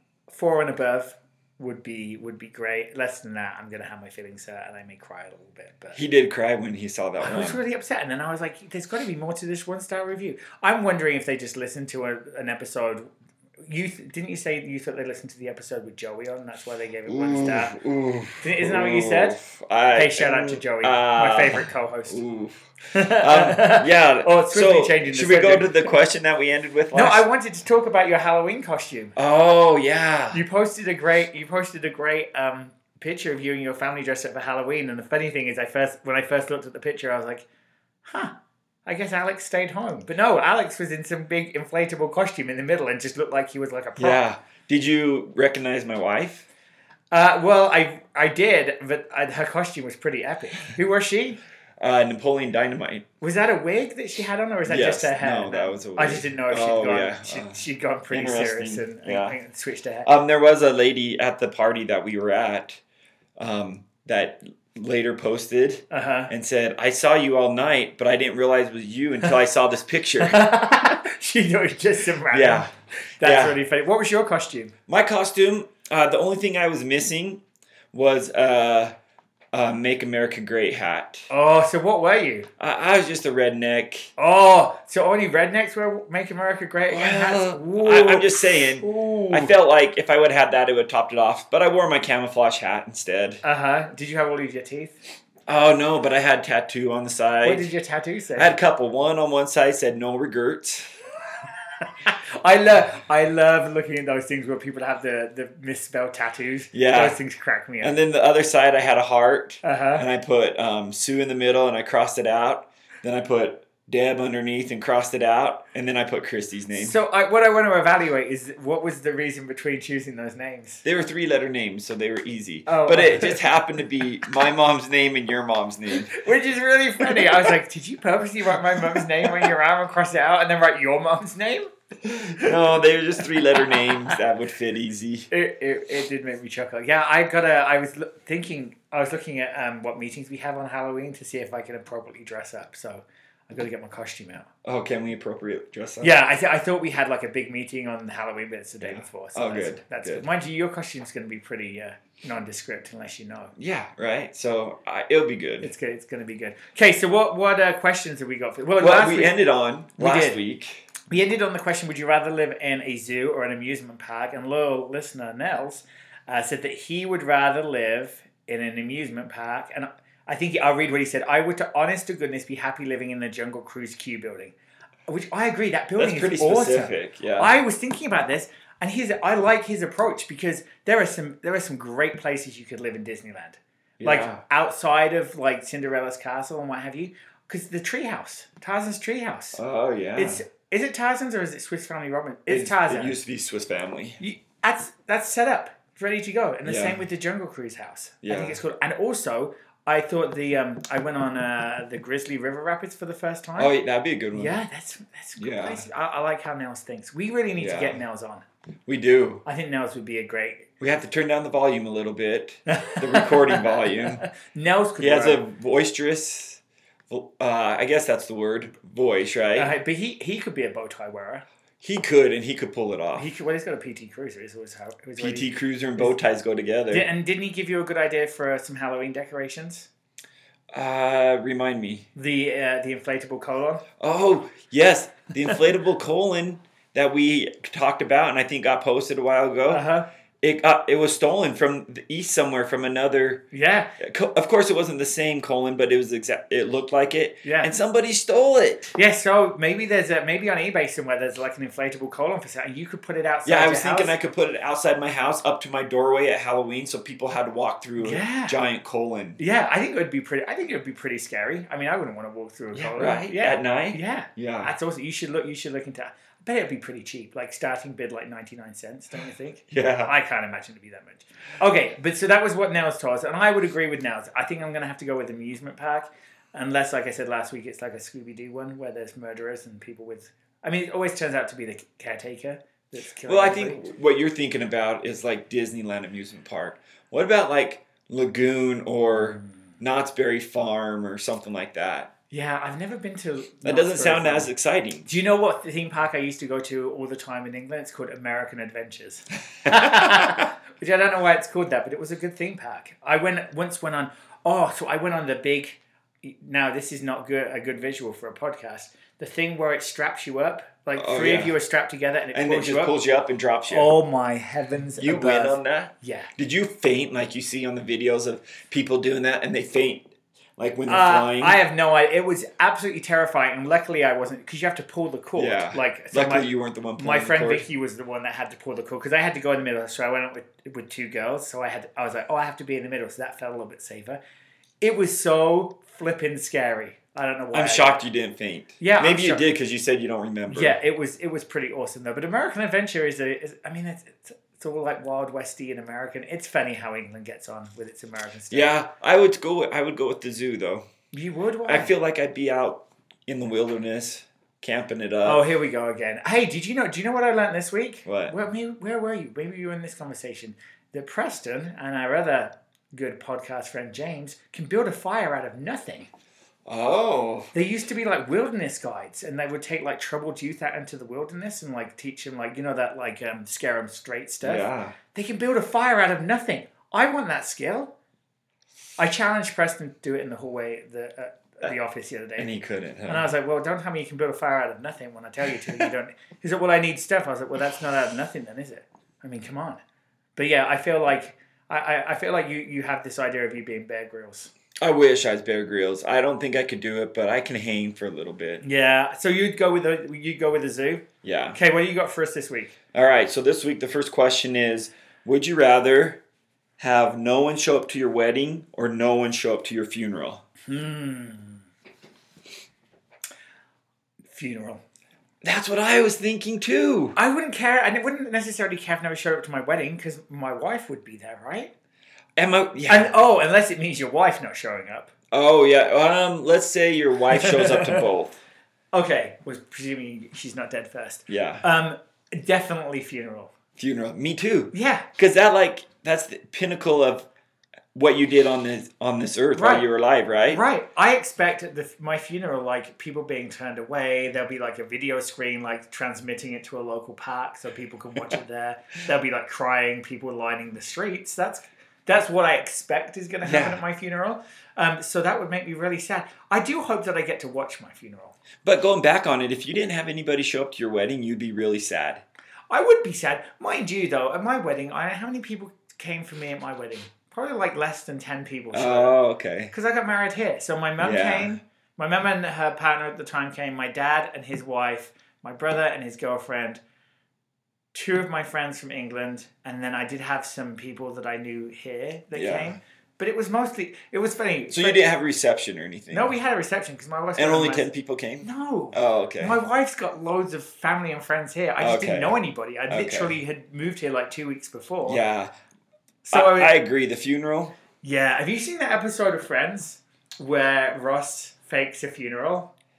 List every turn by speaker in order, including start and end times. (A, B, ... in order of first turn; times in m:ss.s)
0:00.3-0:06.1 A
0:06.0-0:07.6 B
0:07.2-0:13.1 A
0:13.7-0:17.8 A
0:17.1-0:27.2 B
0:18.4-0:19.4 A
0:20.0-0:22.2 A
0:22.9-0:26.0 A
0:26.9-0:29.2 A
0:29.2-0:30.4 B
0:30.3-0:37.5 A
0:38.1-0:38.3 A
0:38.9-0:44.2 A
0:44.0-0:46.5 B
0:47.1-0:51.4 A
0:51.8-0:53.0 B
0:53.2-1:00.1 A
0:54.7-0:59.4 B
1:00.0-1:02.8 B
1:03.4-1:10.5 B
1:05.9-1:06.3 A
1:10.2-1:14.7 A
1:12.3-1:13.6 B
1:14.9-1:17.4 B
1:17.9-1:18.9 B
1:19.5-1:21.3 B
1:21.3-1:22.5 A
1:22.6-1:24.1 B
1:24.2-1:29.5 A
1:26.9-1:33.4 B
1:33.4-1:35.0 A
1:35.5-1:37.7 B
1:37.4-1:38.6 A
1:38.4-1:40.9 B
1:41.8-1:48.0 A
1:46.7-1:47.2 B
1:47.8-1:57.0 B
1:49.6-1:50.0 A
1:56.7-2:00.8 A
2:00.8-2:06.2 B
2:02.7-2:03.4 A
2:06.0-2:12.5 A
2:12.0-2:15.3 B
2:13.4-2:14.2 A
2:15.3-2:24.5 A
2:24.6-2:26.2 B
2:26.0-2:33.5 A
2:28.8-2:30.3 B
2:33.6-2:35.7 B
2:35.6-2:39.4 A
2:38.8-2:40.9 B
2:40.0-2:40.4 A
2:41.1-2:54.5 A
2:55.1-3:09.6 A
2:56.0-2:57.5 B
3:04.0-3:04.4 B
3:09.6-3:10.4 B
3:10.2-3:13.2 A
3:12.5-3:14.2 B
3:14.2-3:23.7 A
3:16.6-3:17.0 B
3:18.2-3:18.6 B
3:23.6-3:24.6 B
3:24.3-3:28.4 A
3:25.4-3:25.9 B
3:27.6-3:28.0 B
3:28.9-3:29.4 B
3:29.4-3:30.7 A
3:30.8-3:34.2 B
3:32.7-3:35.4 A
3:35.0-3:39.7 B
3:39.6-3:41.4 A
3:41.8-3:43.3 B
3:43.2-3:46.1 A
3:45.2-3:47.1 B
3:46.9-3:49.9 A
3:50.7-3:52.1 B
3:52.2-3:53.8 A
3:54.0-3:59.8 B
3:59.7-4:00.1 A
4:00.4-4:03.4 B
4:03.5-4:04.0 A
4:04.0-4:08.9 B
4:07.4-4:07.8 A
4:09.0-4:14.1 A
4:13.4-4:19.4 B
4:18.0-4:18.6 A
4:19.4-4:43.9 A
4:22.7-4:24.7 B
4:29.7-4:30.1 B
4:43.3-4:52.1 B
4:52.3-4:54.5 A
4:53.6-4:55.1 B
4:55.1-5:12.9 A
4:59.7-5:00.4 B
5:11.0-5:11.6 B
5:12.3-5:14.0 B
5:13.7-5:16.3 A
5:15.0-5:21.6 B
5:20.9-5:34.2 A
5:25.4-5:27.7 B
5:34.8-5:38.0 A
5:37.5-5:40.8 B
5:38.8-5:39.4 A
5:40.5-5:48.7 A
5:48.5-5:50.8 B
5:51.1-5:51.9 A
5:51.7-5:55.4 B
5:55.2-6:06.1 A
5:58.1-5:58.3 B
6:06.7-6:07.5 B
6:07.5-6:17.9 A
6:14.4-6:15.0 B
6:19.0-6:22.5 A
6:22.4-6:23.3 B
6:23.1-6:29.8 A
6:30.4-6:34.5 A
6:34.8-6:38.6 B
6:38.6-6:42.8 A
6:41.2-6:41.6 B
6:42.9-6:46.2 B
6:46.8-6:50.4 B
6:50.7-6:51.6 A
6:54.3-6:54.8 A
6:55.4-6:57.2 B
6:57.2-7:01.7 A
7:02.4-7:03.1 B
7:02.9-7:05.1 A
7:05.3-7:08.4 B
7:07.4-7:08.0 A
7:08.9-7:13.5 A
7:11.3-7:11.6 B
7:13.8-7:17.3 B
7:14.7-7:15.1 A
7:17.9-7:20.6 B
7:19.5-7:19.9 A
7:20.5-7:38.4 A
7:33.4-7:33.8 B
7:38.6-7:42.2 B
7:42.7-7:49.2 A
7:48.7-7:49.7 B
7:49.7-7:56.8 A
7:51.0-7:51.6 B
7:57.9-8:05.0 A
8:02.3-8:02.8 B
8:04.7-8:06.3 B
8:06.1-8:07.9 A
8:07.4-8:09.6 B
8:08.4-8:15.2 A
8:11.8-8:12.4 B
8:12.9-8:13.4 B
8:15.0-8:15.5 B
8:16.2-8:16.8 A
8:16.3-8:17.7 B
8:18.0-8:22.7 A